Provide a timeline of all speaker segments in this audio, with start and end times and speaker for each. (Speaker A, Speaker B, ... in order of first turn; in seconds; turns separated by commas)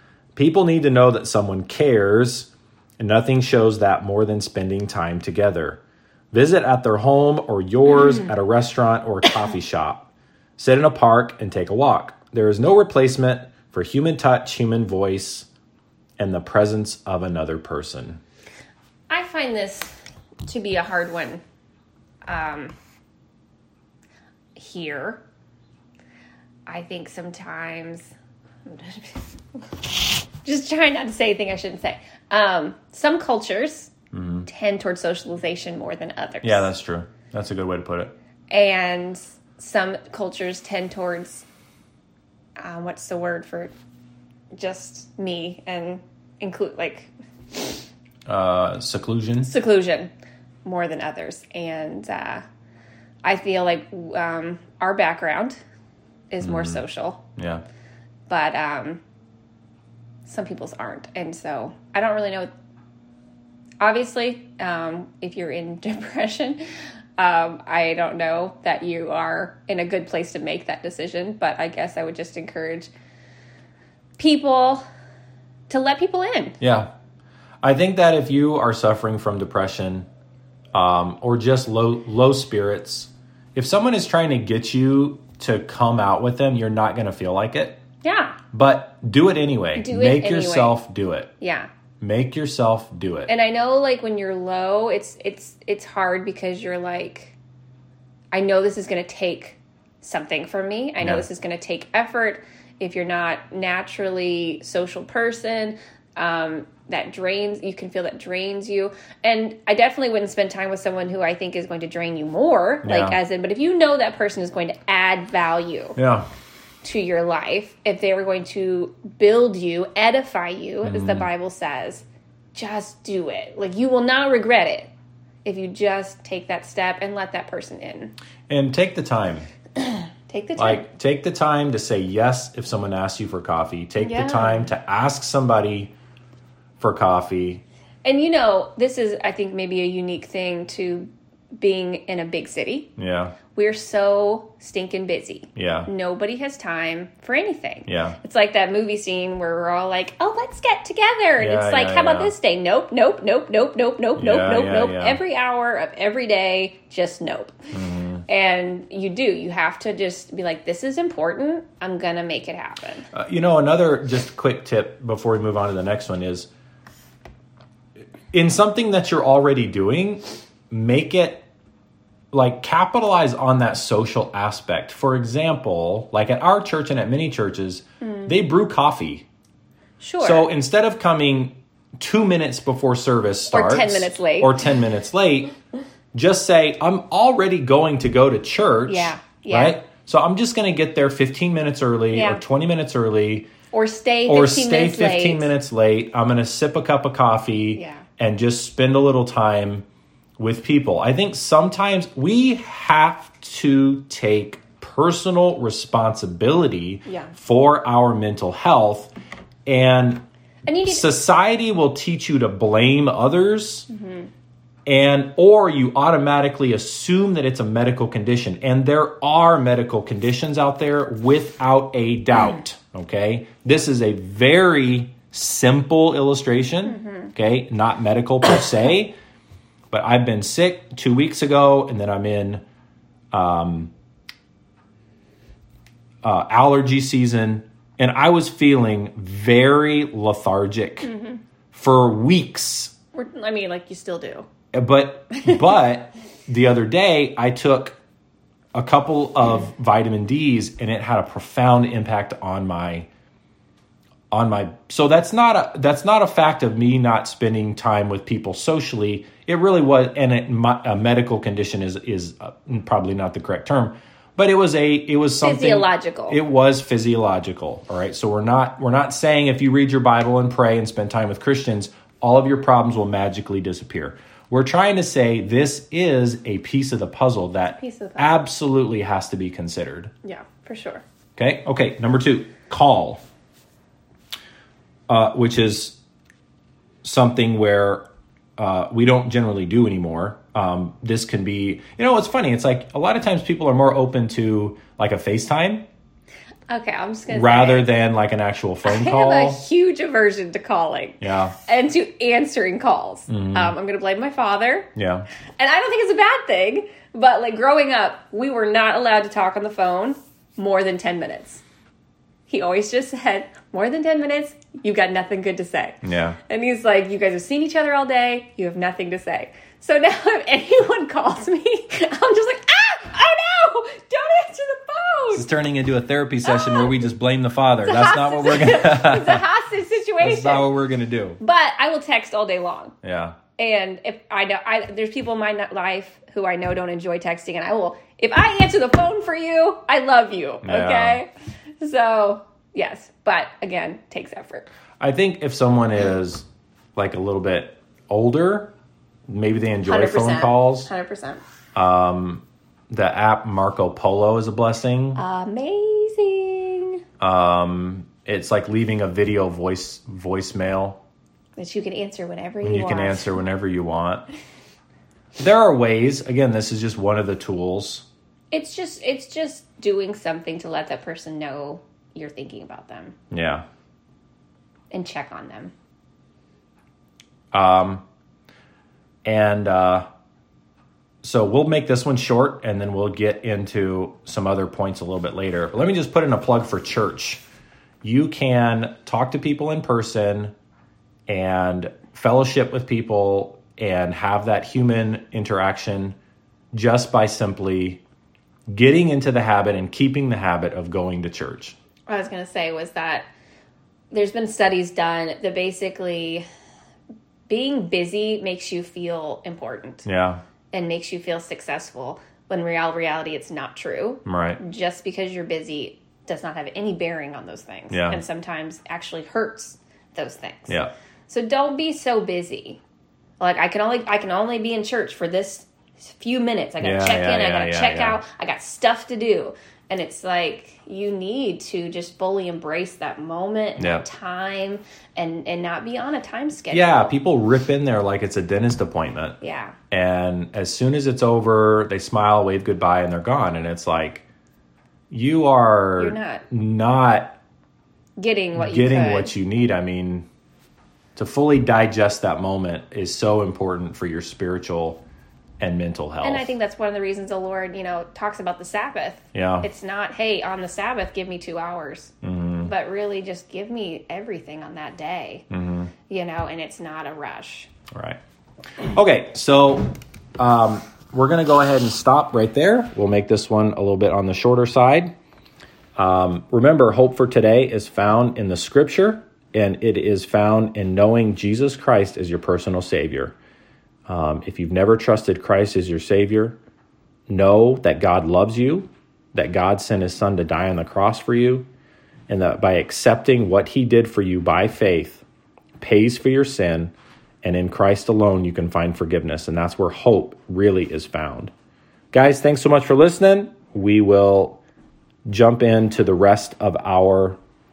Speaker A: 0.4-5.8, Speaker A: 6.3-15.5, Speaker A: 16.2-18.2, Speaker B: 19.1-21.4, Speaker B: 22.3-22.7, Speaker B: 24.6-25.2, Speaker B: 26.7-28.1, Speaker B: 28.7-33.9, Speaker A: 34.1-34.5, Speaker B: 34.5-36.7, Speaker A: 36.4-38.1, Speaker B: 38.5-41.5, Speaker B: 42.6-43.7, Speaker B: 44.5-47.9, Speaker A: 48.3-49.5, Speaker B: 49.4-50.1, Speaker B: 50.6-52.4, Speaker B: 53.2-55.6, Speaker B: 56.3-57.2, Speaker A: 56.4-56.8, Speaker A: 57.4-57.6, Speaker B: 58.3-59.0, Speaker B: 60.3-62.5, Speaker B: 63.8-66.6, Speaker B: 67.2-72.9, Speaker B: 74.2-74.8, Speaker B: 75.7-76.6, Speaker A: 76.6-76.9, Speaker A: 77.6-80.1, Speaker A: 80.7-87.8, Speaker B: 88.0-88.4, Speaker A: 88.5-91.3, Speaker B: 89.8-90.8, Speaker B: 91.4-91.7, Speaker A: 92.0-93.3, Speaker B: 93.3-97.3, Speaker B: 98.3-116.0, Speaker A: 101.0-101.3, Speaker A: 112.8-113.2, Speaker A: 116.0-116.3, Speaker B: 116.8-124.9, Speaker A: 120.8-121.3, Speaker B: 125.5-128.1, Speaker A: 128.5-129.5, Speaker B: 129.8-130.8, Speaker A: 130.6-135.9, Speaker B: 134.0-134.7, Speaker A: 136.8-137.6, Speaker B: 138.1-142.9, Speaker A: 143.0-143.4, Speaker B: 143.5-157.6, Speaker A: 145.6-145.9, Speaker A: 147.9-148.2, Speaker A: 151.4-152.3, Speaker A: 154.2-155.2, Speaker A: 157.7-158.2, Speaker B: 158.3-163.1, Speaker A: 163.1-166.5, Speaker A: 168.3-171.5, Speaker A: 172.3-179.3, Speaker B: 178.0-178.3, Speaker B: 180.0-180.5, Speaker A: 180.2-185.5, Speaker B: 183.5-184.6, Speaker A: 186.1-193.5, Speaker B: 188.9-189.8, Speaker B: 192.1-192.4, Speaker B: 193.7-195.5, Speaker A: 194.3-199.8, Speaker B: 197.8-198.1, Speaker A: 200.4-209.1, Speaker B: 207.1-207.3, Speaker A: 209.7-210.2, Speaker B: 210.7-211.1, Speaker A: 210.8-213.9, Speaker B: 213.9-214.3, Speaker A: 214.9-229.1, Speaker B: 226.9-227.3, Speaker A: 229.9-232.6, Speaker A: 233.3-233.9, Speaker A: 236.2-241.1, Speaker B: 241.0-241.4, Speaker A: 241.7-242.9, Speaker B: 243.1-244.5, Speaker A: 244.7-248.0, Speaker A: 248.8-253.1, Speaker A: 254.3-280.1, Speaker B: 265.4-266.4, Speaker B: 277.8-278.4, Speaker B: 280.2-281.0, Speaker A: 281.4-283.2, Speaker A: 285.1-286.0, Speaker A: 287.0-288.1, Speaker A: 288.6-295.9, Speaker B: 296.7-297.9, Speaker A: 297.3-299.6, Speaker B: 298.8-304.9, Speaker A: 301.2-301.6, Speaker A: 303.3-303.8, Speaker A: 304.9-305.3, Speaker B: 305.6-311.6, Speaker B: 312.5-325.5, Speaker A: 316.0-316.4, Speaker A: 325.3-329.4, Speaker B: 326.4-327.0, Speaker B: 327.8-330.7, Speaker A: 330.2-331.4, Speaker B: 331.4-332.9, Speaker A: 333.0-333.4, Speaker B: 333.6-341.3, Speaker A: 340.6-341.2, Speaker B: 341.8-344.7, Speaker A: 345.0-348.7, Speaker A: 349.3-350.9, Speaker B: 349.8-351.4, Speaker A: 351.8-355.2, Speaker B: 355.2-357.0, Speaker A: 357.2-361.0, Speaker B: 361.6-363.4, Speaker A: 362.6-364.2, Speaker A: 365.4-368.1, Speaker B: 368.5-373.1, Speaker A: 373.3-373.6, Speaker B: 374.9-375.7, Speaker A: 377.5-378.0, Speaker A: 379.2-380.1, Speaker A: 381.2-387.4, Speaker A: 388.0-390.5, Speaker A: 391.3-396.2, Speaker A: 396.7-398.0, Speaker A: 398.7-401.8, Speaker B: 402.1-403.3, Speaker B: 404.1-406.4, Speaker B: 407.5-410.1, Speaker A: 410.1-410.4, Speaker B: 410.7-422.8, Speaker A: 414.2-414.6, Speaker A: 417.9-418.2, Speaker B: 423.4-437.1, Speaker A: 426.8-428.2, Speaker A: 433.8-434.1, Speaker A: 436.7-439.4, Speaker B: 439.4-439.8, Speaker A: 439.9-444.3, Speaker A: 445.1-447.4, Speaker B: 446.0-446.4, Speaker B: 448.2-449.3, Speaker A: 448.6-450.2, Speaker A: 451.2-455.0, Speaker A: 455.6-456.5, Speaker B: 456.2-462.1, Speaker A: 459.3-459.7, Speaker A: 462.2-462.7, Speaker B: 462.6-465.4, Speaker A: 465.5-465.9, Speaker B: 466.1-467.7, Speaker A: 467.9-468.2, Speaker A: 468.8-475.1, Speaker A: 476.0-483.4, Speaker A: 484.1-486.6, Speaker A: 487.3-491.7, Speaker A: 492.3-495.2, Speaker A: 495.8-501.5, Speaker A: 502.1-504.6, Speaker A: 505.3-507.4